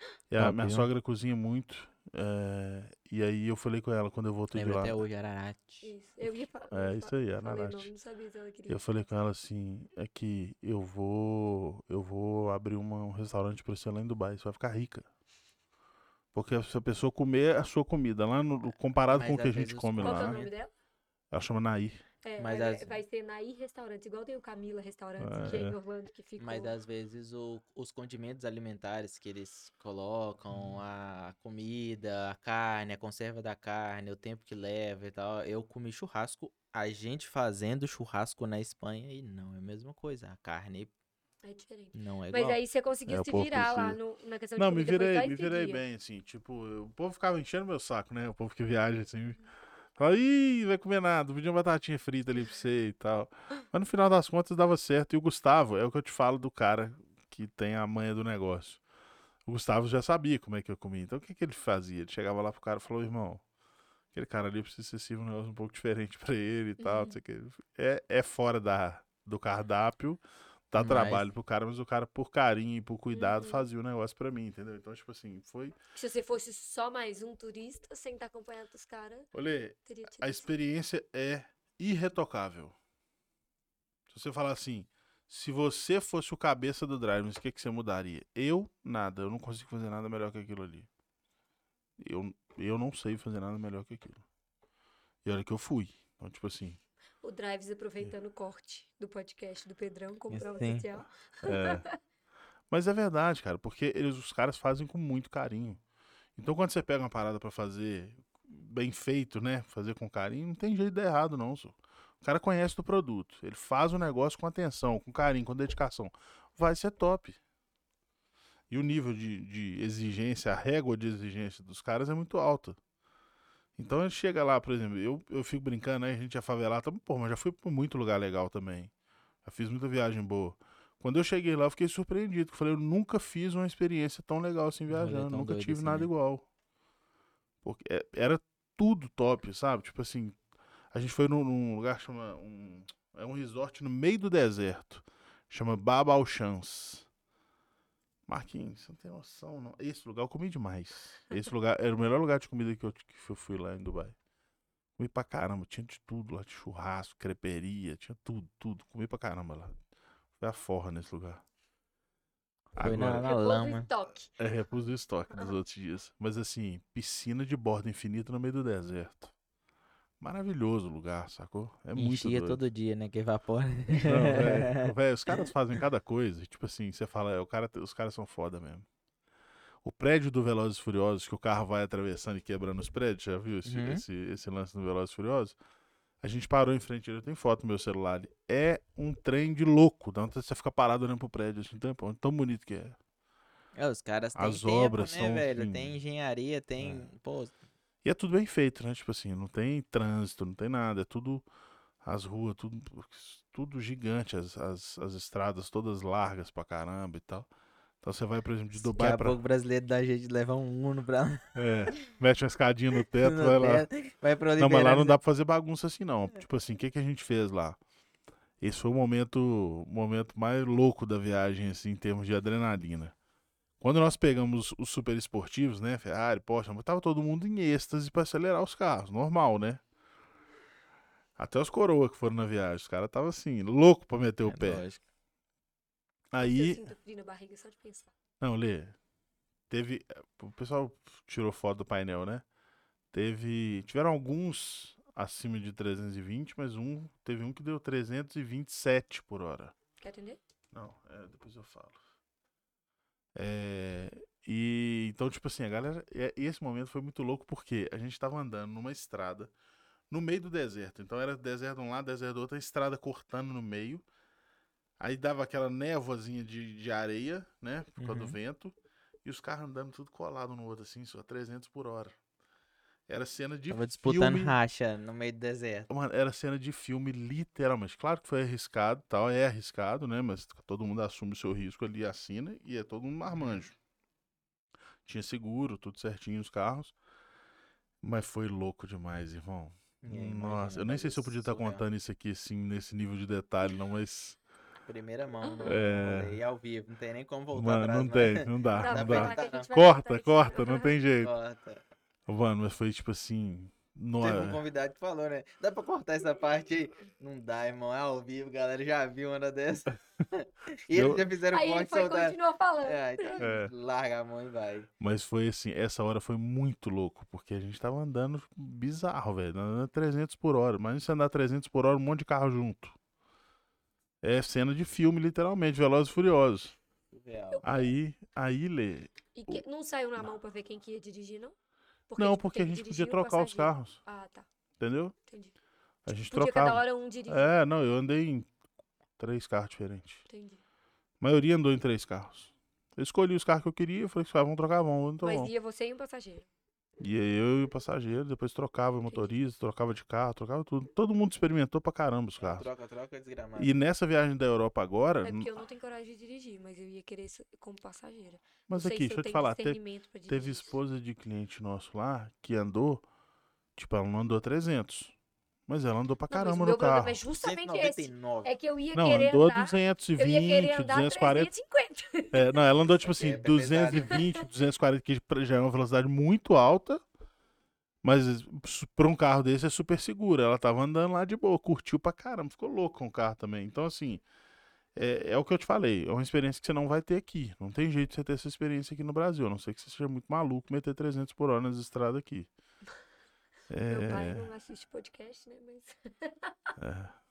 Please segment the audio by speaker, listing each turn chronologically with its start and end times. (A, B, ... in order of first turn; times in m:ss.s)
0:00.3-0:05.0 A
0:00.4-0:00.9 B
0:04.5-0:05.9 B
0:05.8-0:08.8 C
0:06.7-0:07.9 A
0:08.7-0:15.1 A
0:16.3-0:20.4 A
0:19.1-0:20.5 B
0:20.0-0:20.7 C
0:21.3-0:22.0 A
0:22.2-0:26.7 C
0:22.4-0:22.9 B
0:25.2-0:25.8 A
0:26.4-0:40.9 B
0:41.4-0:45.8 C
0:41.9-0:42.6 B
0:43.1-0:44.0 A
0:44.6-0:49.4 A
0:50.0-0:58.8 A
0:59.5-1:03.4 A
1:04.1-1:15.8 A
1:06.8-1:07.2 C
1:10.8-1:11.2 B
1:13.1-1:13.6 C
1:16.0-1:19.3 C
1:19.3-1:22.8 A
1:19.9-1:20.5 C
1:24.1-1:30.9 A
1:32.0-1:34.2 A
1:35.2-1:36.8 A
1:37.2-1:42.0 C
1:40.3-1:40.9 B
1:41.4-1:41.8 A
1:42.7-1:45.8 A
1:46.4-1:57.4 A
1:58.7-2:02.8 A
2:03.8-2:08.9 A
2:09.4-2:16.5 A
2:14.9-2:16.1 B
2:17.6-2:20.4 A
2:20.9-2:27.1 A
2:28.3-2:34.2 A
2:35.0-2:39.8 A
2:40.4-2:41.4 A
2:42.8-2:43.3 A
2:42.8-2:43.9 B
2:43.2-2:44.3 C
2:44.4-2:49.3 A
2:50.2-2:52.6 A
2:52.0-2:55.5 B
2:54.0-2:58.9 A
2:59.8-3:05.6 A
3:03.6-3:04.0 B
3:06.2-3:13.0 A
3:13.8-3:17.5 B
3:14.4-3:16.0 A
3:16.8-3:17.1 A
3:18.0-3:21.4 A
3:22.0-3:27.5 A
3:28.0-3:29.4 A
3:28.8-3:31.6 B
3:31.6-3:33.9 A
3:33.2-3:35.2 B
3:34.6-3:37.8 A
3:38.6-3:43.1 A
3:43.8-3:49.8 A
3:51.4-3:54.8 A
3:54.5-3:55.0 B
3:56.3-3:56.8 A
3:56.4-3:58.1 C
3:58.4-3:59.0 A
3:59.7-4:02.4 A
4:03.1-4:09.7 A
4:10.0-4:10.4 C
4:10.7-4:12.0 A
4:13.4-4:19.5 A
4:20.1-4:24.0 A
4:25.0-4:32.2 A
4:28.0-4:28.4 B
4:33.1-4:34.6 A
4:33.7-4:35.9 B
4:35.9-4:43.8 A
4:45.0-4:46.9 A
4:48.0-4:54.4 A
4:50.0-4:51.8 B
4:54.9-4:59.7 B
4:55.5-4:55.8 C
4:55.6-4:56.4 A
4:57.5-5:01.3 A
4:58.8-5:00.9 C
5:01.2-5:01.8 B
5:02.3-5:04.6 A
5:04.2-5:14.9 B
5:10.9-5:11.2 A
5:11.5-5:13.4 C
5:13.4-5:13.7 A
5:15.0-5:23.0 A
5:24.2-5:26.8 A
5:27.1-5:27.6 B
5:27.5-5:27.9 C
5:27.6-5:29.6 A
5:29.4-5:31.6 C
5:32.1-5:34.5 C
5:32.2-5:34.0 A
5:34.8-5:35.1 A
5:35.3-5:35.5 C
5:36.1-5:38.5 A
5:36.2-5:37.5 C
5:39.2-5:40.2 A
5:40.3-5:40.6 C
5:41.2-5:45.5 A
5:45.2-5:46.5 C
5:47.0-5:52.7 A
5:52.4-5:53.7 B
5:53.6-5:55.6 A
5:55.2-6:00.7 C
5:58.7-6:03.0 A
6:03.8-6:05.1 A
6:05.7-6:07.2 A
6:06.3-6:12.5 C
6:07.3-6:08.5 B
6:08.9-6:11.5 A
6:12.3-6:17.0 A
6:13.0-6:14.2 B
6:18.0-6:24.2 A
6:25.0-6:32.5 A
6:33.7-6:34.5 A
6:33.9-6:36.7 C
6:36.8-6:37.2 A